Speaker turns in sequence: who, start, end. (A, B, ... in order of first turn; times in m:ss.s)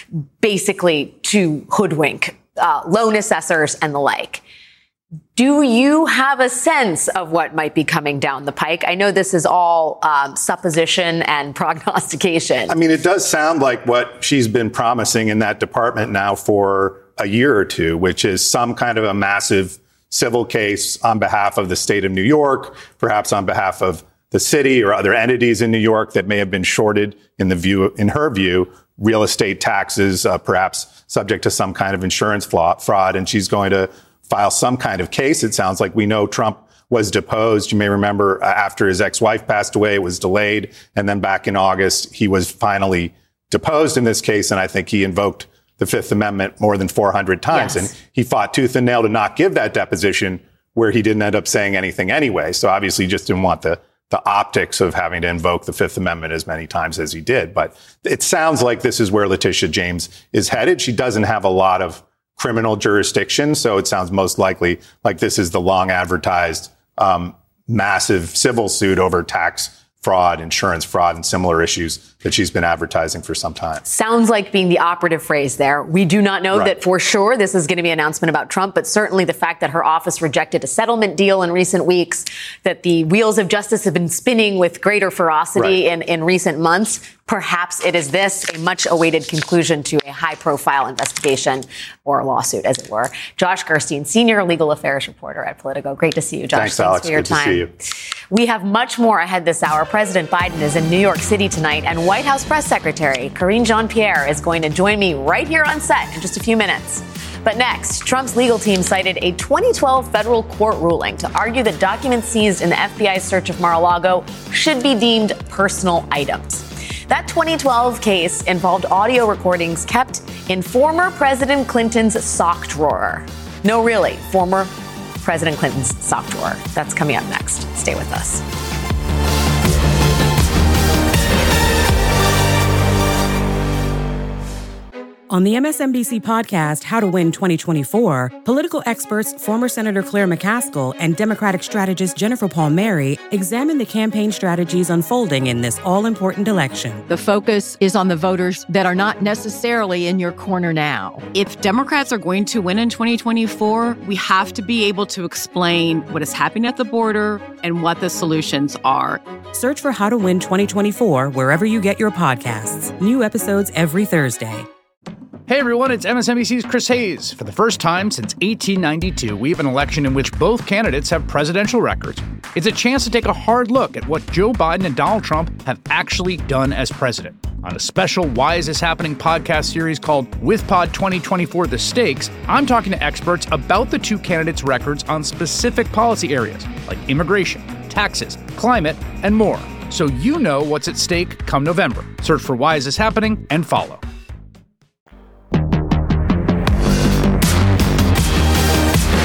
0:00.4-0:04.4 A
0:05.4-0:12.8 A
0:12.7-1:13.8 B
0:47.5-0:47.9 A
1:13.8-1:37.7 A
1:36.5-1:37.7 B
1:38.3-2:04.7 A
2:05.2-2:08.4 A
2:15.3-2:27.0 C
2:27.1-2:39.2 D
2:39.5-2:44.7 C
2:45.5-3:14.0 E